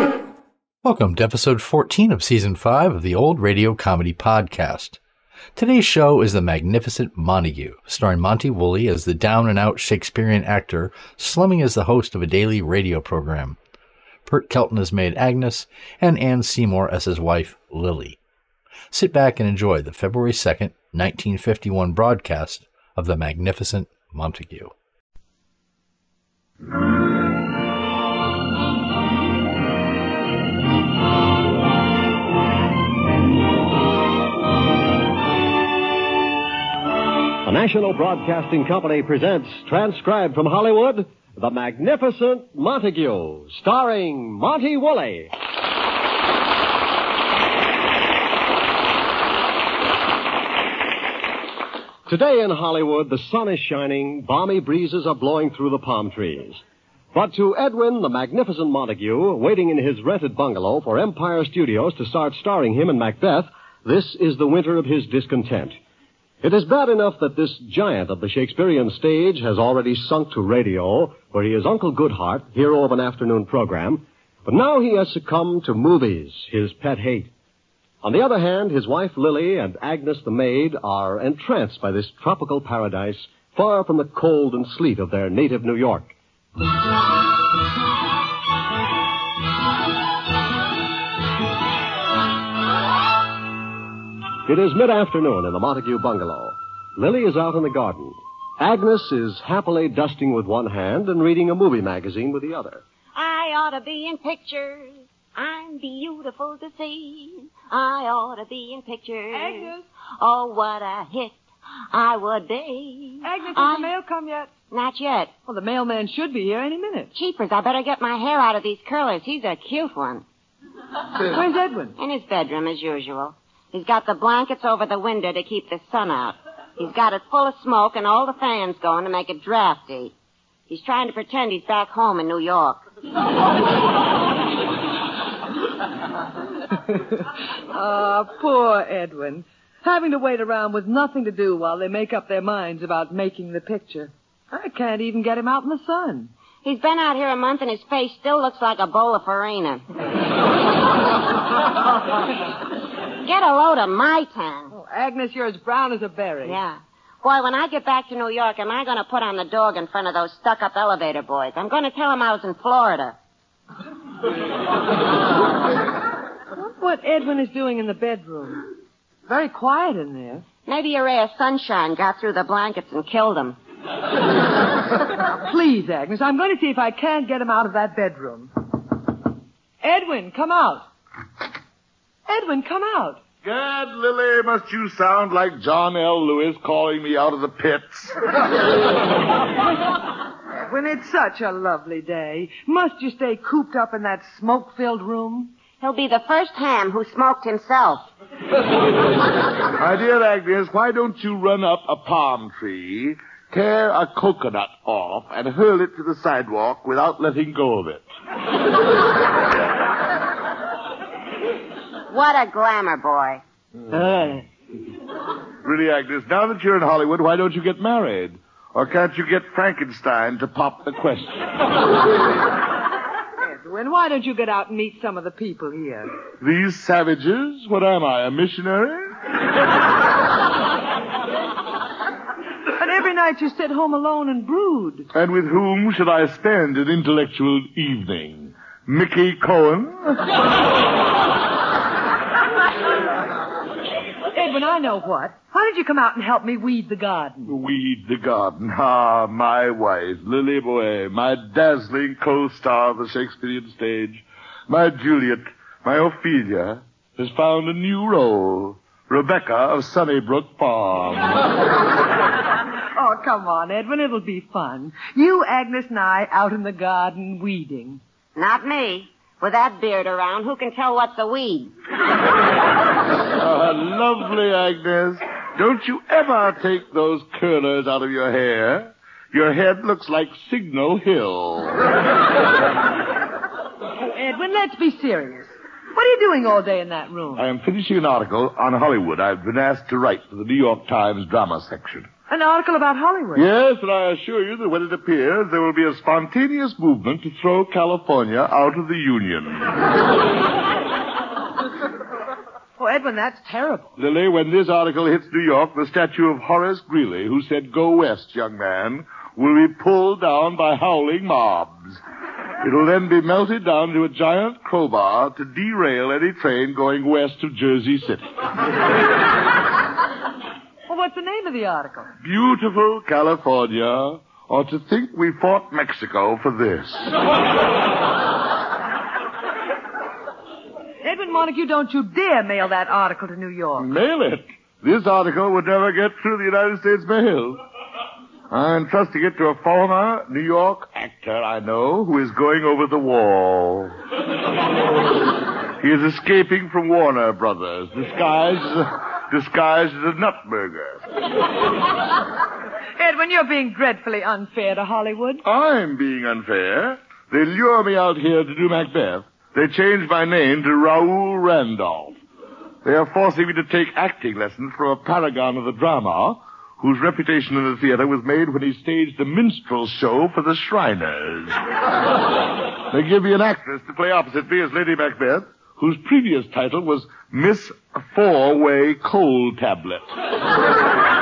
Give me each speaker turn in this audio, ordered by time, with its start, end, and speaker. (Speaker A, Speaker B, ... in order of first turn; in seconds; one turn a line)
Speaker A: 0.8-5.0
Speaker A: 5.6-13.6
Speaker A: 14.3-18.2
Speaker A: 18.9-24.7
Speaker B: 37.4-45.3
Speaker B: 52.1-56.6
Speaker B: 57.1-65.8
Speaker B: 66.4-77.3
Speaker B: 78.0-86.1
Speaker B: 94.5-102.8
Speaker C: 103.2-109.7
Speaker D: 109.3-109.9
Speaker C: 110.2-111.4
Speaker C: 111.9-113.9
Speaker D: 113.2-114.5
Speaker C: 114.7-115.3
Speaker D: 115.5-117.1
Speaker C: 117.2-120.2
Speaker D: 121.2-122.0
Speaker C: 122.0-130.1
Speaker C: 130.7-132.8
Speaker D: 136.9-146.3
Speaker C: 146.6-149.8
Speaker C: 153.2-154.7
Speaker D: 154.7-156.6
Speaker C: 156.4-163.2
Speaker D: 166.6-168.7
Speaker D: 169.3-170.4
Speaker C: 170.7-173.6
Speaker D: 175.4-178.5
Speaker D: 179.8-180.8
Speaker D: 182.3-183.2
Speaker E: 183.4-188.2
Speaker D: 190.7-195.5
Speaker C: 195.8-198.1
Speaker E: 199.8-208.0
Speaker C: 212.1-213.4
Speaker E: 215.6-221.8
Speaker D: 223.4-226.1
Speaker E: 226.4-229.1
Speaker D: 232.8-235.1
Speaker E: 235.1-240.3
Speaker D: 244.3-247.5
Speaker E: 247.4-261.5
Speaker D: 262.9-268.0
Speaker C: 268.4-271.7
Speaker E: 273.3-281.9
Speaker D: 284.0-287.4
Speaker E: 287.4-292.1
Speaker D: 292.3-293.5
Speaker E: 293.4-299.8
Speaker D: 302.8-303.9
Speaker E: 304.0-312.0
Speaker E: 312.6-318.3
Speaker D: 320.9-322.1
Speaker E: 322.2-327.2
Speaker D: 331.0-333.9
Speaker E: 333.8-337.6
Speaker E: 338.5-343.9
Speaker E: 345.8-351.0
Speaker D: 353.0-355.4
Speaker E: 355.4-362.2
Speaker E: 362.8-371.6
Speaker E: 372.9-380.1